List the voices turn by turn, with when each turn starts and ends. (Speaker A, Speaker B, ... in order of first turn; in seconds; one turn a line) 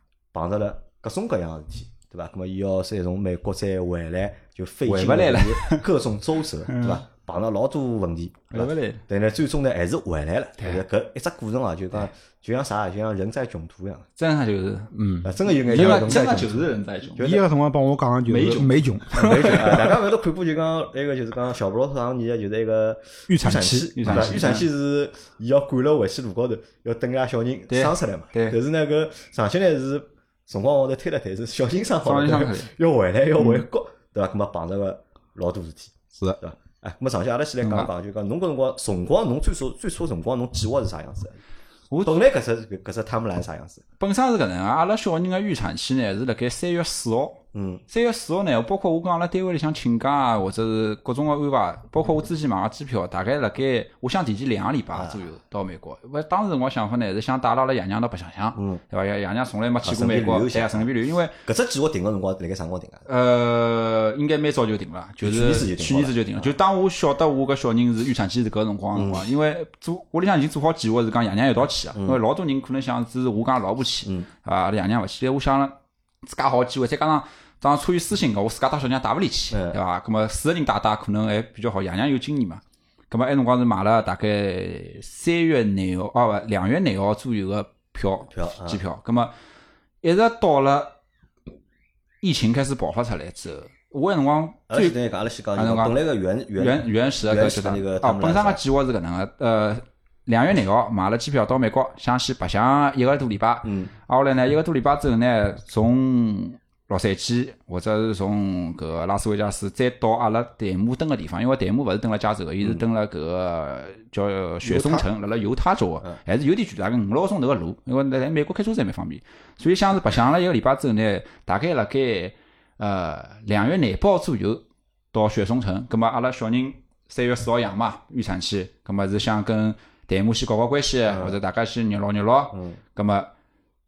Speaker A: 0.3-14.1
Speaker B: 4.9-5.8
Speaker B: 6.7-7.0
Speaker B: 8.5-9.0
Speaker B: 10.6-10.8
Speaker B: 14.2-14.9
Speaker C: 14.9-16.5
Speaker A: 15.2-17.4
Speaker B: 15.7-17.3
Speaker C: 17.2-19.9
Speaker B: 18.3-19.8
Speaker A: 19.2-41.4
Speaker C: 23.3-24.4
Speaker B: 24.0-24.6
Speaker B: 27.7-28.6
Speaker B: 32.0-32.7
Speaker B: 37.6-37.9
Speaker A: 42.0-43.8
Speaker B: 44.0-61.4
Speaker A: 47.5-47.8
Speaker A: 54.9-55.2
Speaker A: 58.6-58.8
Speaker A: 59.8-60.9
Speaker A: 61.5-63.1
Speaker B: 63.1-89.3
Speaker A: 65.2-66.5
Speaker A: 68.9-69.2
Speaker A: 79.5-79.8
Speaker A: 88.3-88.8
Speaker B: 90.0-91.0
Speaker B: 92.2-95.0
Speaker A: 94.7-98.6
Speaker B: 95.5-96.0
Speaker B: 96.6-133.3
Speaker A: 103.7-103.9
Speaker C: 114.7-115.0
Speaker A: 131.1-131.4
Speaker A: 132.5-132.8